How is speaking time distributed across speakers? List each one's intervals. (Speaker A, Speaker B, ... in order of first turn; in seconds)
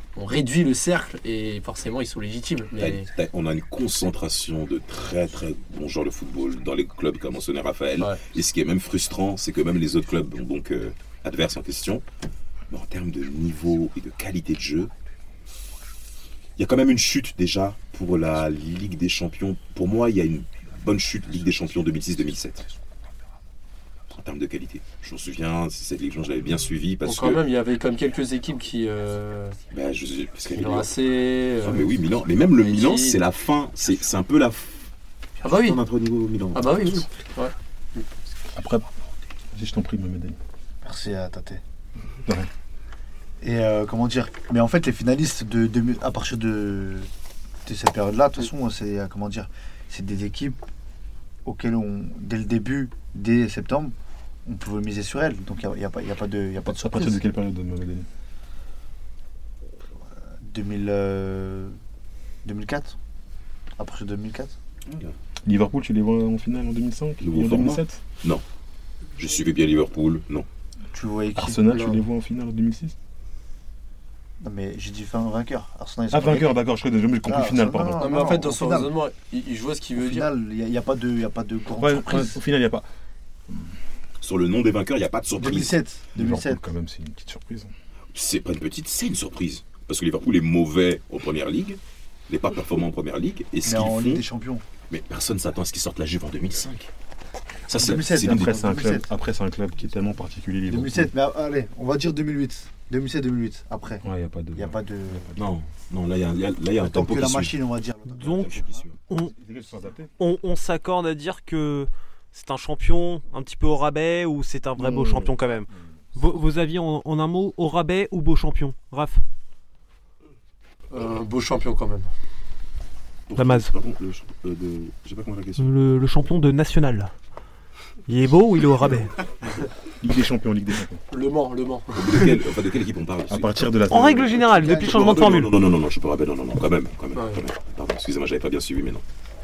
Speaker A: 0.2-3.1, 27.1-29.6, 30.5-31.9, 32.5-33.2, 35.4-35.8, 36.5-38.1, 78.0-80.3, 120.9-122.1, 131.1-132.3, 137.2-137.4
Speaker B: 2.8-12.0, 12.7-14.9, 16.6-22.7, 24.1-27.4, 29.7-30.9, 31.6-34.9, 35.5-37.0, 64.9-65.2, 67.2-68.4, 69.2-70.5, 84.2-85.7, 88.1-94.2, 94.9-96.9, 97.7-98.6, 105.4-107.6, 108.2-109.0, 123.3-125.7, 131.9-133.6, 134.6-139.1
Speaker C: 38.5-38.9, 39.5-40.4, 56.7-58.1, 65.5-68.0, 71.4-73.0, 76.1-78.1, 81.8-82.9, 86.2-87.7, 98.0-101.1, 104.0-105.6, 109.2-110.1, 114.8-115.4, 130.0-131.0, 133.3-134.5
Speaker D: 40.8-41.6, 43.4-47.1, 47.6-50.6, 51.5-53.9, 54.5-57.2, 60.3-61.8, 62.4-63.0, 63.8-64.6, 70.9-72.0, 74.4-76.6, 77.2-78.9, 80.0-82.4, 85.4-86.6, 93.6-94.7, 97.8-99.1, 100.7-105.3, 106.8-108.7, 134.4-135.4
Speaker E: 108.2-109.3, 110.2-119.2, 123.4-123.7, 125.6-127.1, 128.1-129.2, 133.9-135.5